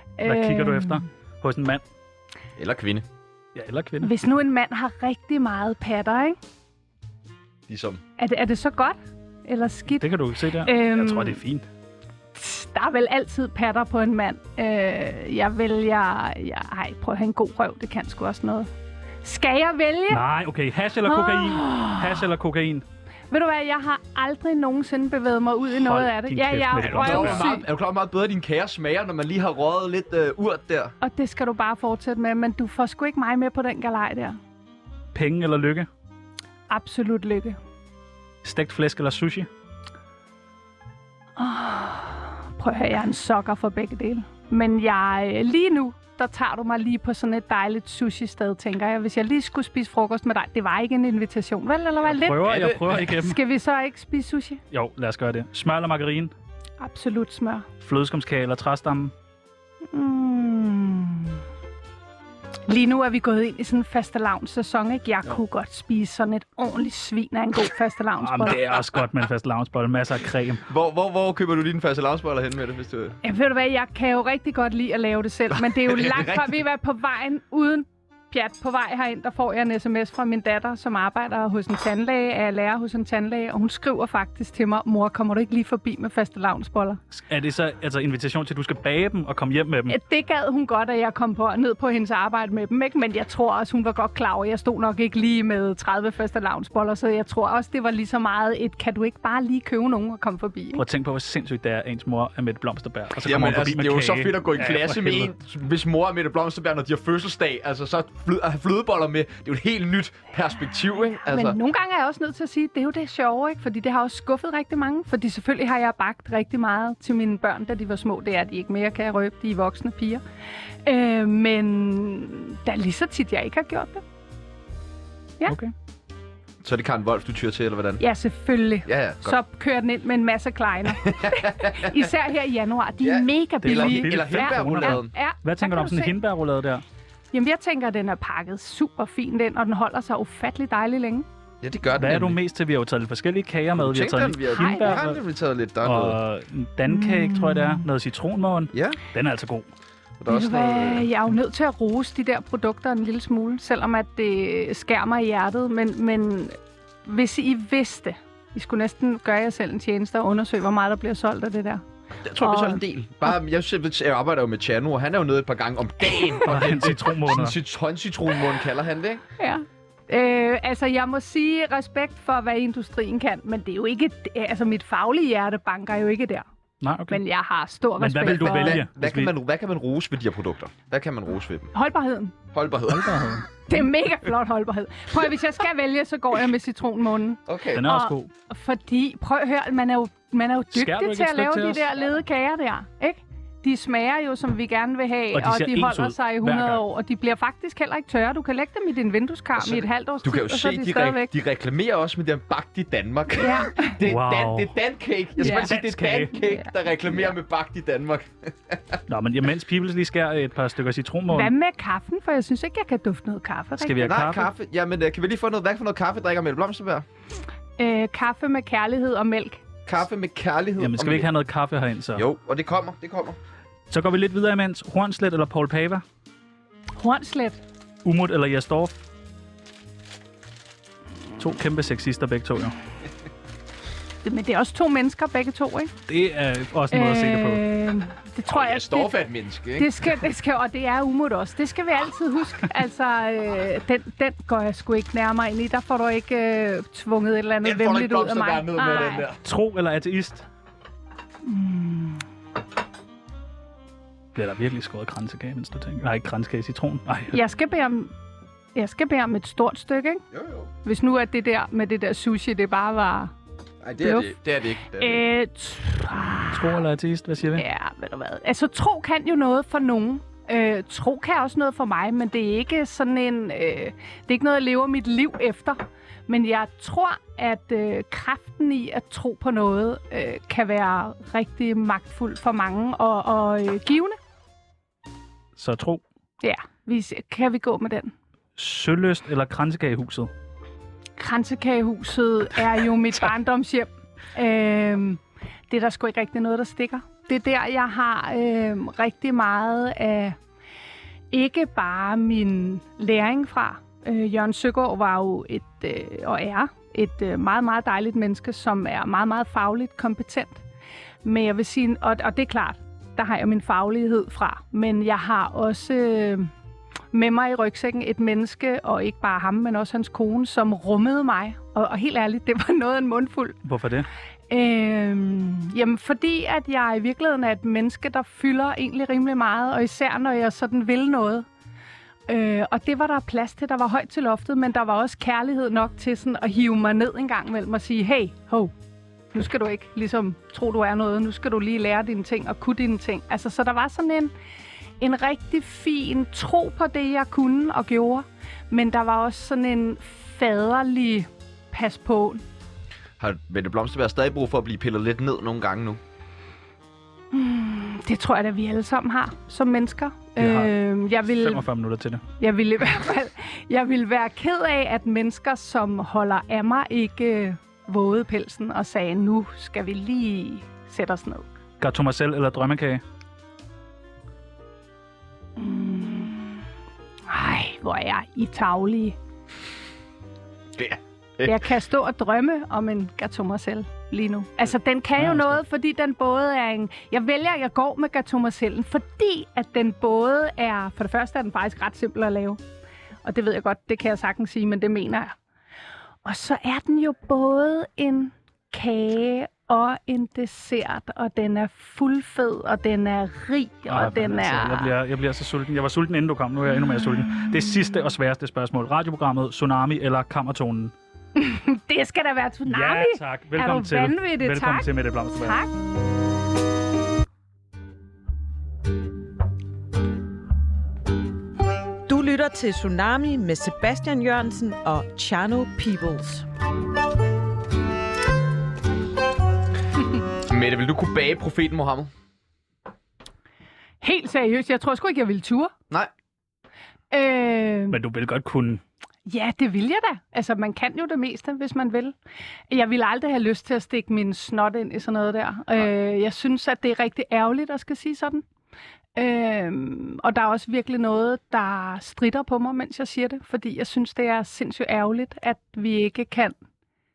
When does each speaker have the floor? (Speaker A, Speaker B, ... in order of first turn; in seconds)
Speaker A: 0.2-1.1, 4.0-6.4, 8.2-10.1, 10.6-11.4, 12.3-18.7, 19.2-20.2, 21.1-22.2, 23.3-27.7, 31.0-34.4, 36.7-37.6, 41.4-54.6, 56.8-57.7, 59.9-61.4, 62.7-68.6, 73.2-87.0, 89.9-100.8, 111.2-120.2, 120.8-124.0, 128.0-136.2, 137.3-141.2, 144.6-145.0, 146.9-147.8, 150.3-161.8, 162.4-162.8, 169.4-176.4, 177.1-178.8, 181.7-182.3, 183.7-201.3, 203.4-204.0, 205.4-205.7, 206.3-206.7, 211.3-214.2, 217.8-219.6, 227.0-227.6, 234.2-235.9, 236.9-239.2, 239.8-249.3, 251.4-252.2, 257.3-258.1, 258.8-260.2, 260.8-263.3, 264.0-264.3, 264.9-266.8, 267.6-284.2, 286.4-288.1, 291.2-300.4, 301.3-310.6, 311.2-316.5, 317.1-323.6, 324.5-331.5, 332.3-338.7, 339.3-344.3, 345.0-352.4, 357.3-361.6, 362.4-371.4, 375.6-376.6, 377.3-379.2, 381.4-392.6, 393.2-395.4, 396.2-404.9, 411.4-415.7, 434.0-435.7, 437.1-438.0, 439.3-442.2, 442.7-448.4, 449.1-456.6
Speaker B: 0.2-1.8, 3.5-4.1, 10.0-11.7, 20.1-22.9, 25.8-27.5, 35.1-35.9, 38.4-39.5, 52.1-53.4, 54.7-56.3, 57.8-59.1, 68.2-70.6, 87.1-90.0, 100.8-105.3, 125.5-125.7, 133.6-136.8, 142.0-145.2, 145.8-149.7, 166.4-167.6, 176.8-177.2, 178.0-179.3, 182.9-183.4, 187.8-188.3, 190.7-191.9, 195.3-196.8, 204.0-204.7, 205.4-206.4, 209.1-211.5, 213.8-214.5, 220.8-222.2, 223.9-226.0, 228.1-229.0, 231.4-232.8, 236.1-237.7, 249.4-250.4, 254.3-257.4, 266.5-267.6, 285.6-286.0, 288.6-290.3, 323.6-324.1, 360.4-362.2, 371.8-373.0, 385.2-385.6, 403.9-410.9, 412.7-415.6, 437.9-438.8
Speaker C: 2.6-3.1, 7.7-8.0, 26.8-30.9, 52.5-53.0, 68.6-68.8, 70.7-73.2, 75.5-76.6, 103.2-111.6, 126.6-128.0, 128.9-129.4, 131.0-132.1, 133.0-135.1, 141.6-142.4, 143.8-146.2, 148.7-149.0, 150.2-151.1, 162.2-169.2, 178.2-181.7, 182.5-183.3, 187.4-187.8, 199.6-209.0, 214.1-217.1, 219.9-221.3, 222.2-223.4, 238.5-240.1, 247.6-249.4, 260.3-260.7, 263.8-265.2, 353.2-356.0, 380.8-381.7, 430.4-432.1
Speaker D: 422.1-426.4